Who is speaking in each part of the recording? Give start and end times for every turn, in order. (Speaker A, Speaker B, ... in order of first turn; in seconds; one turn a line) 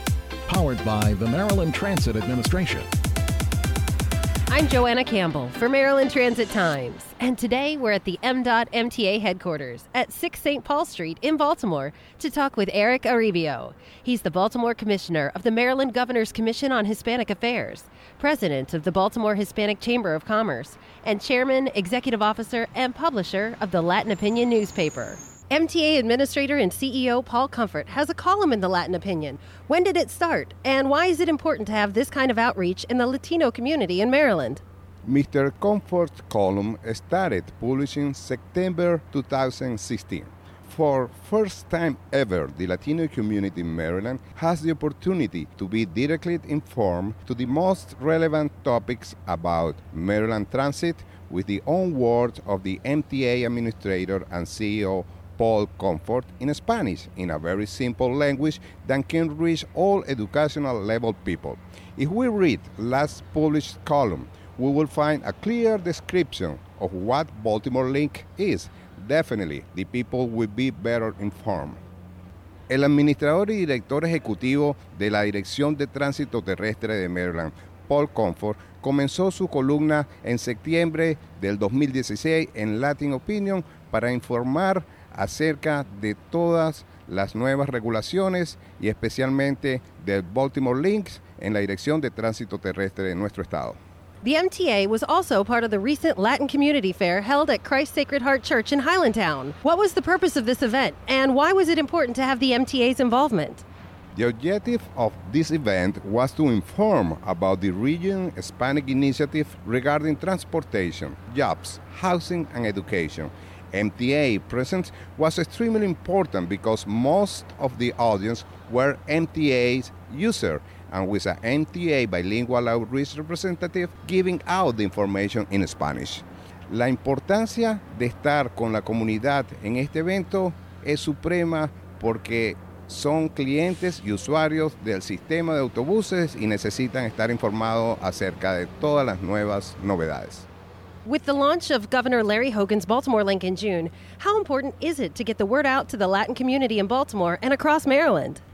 Speaker A: 0.5-2.9
Speaker B: 4.5-34.6
Speaker C: 35.0-71.8
Speaker C: 72.7-93.8
Speaker B: 94.2-103.6
Speaker C: 104.1-140.5
Speaker B: 141.0-148.4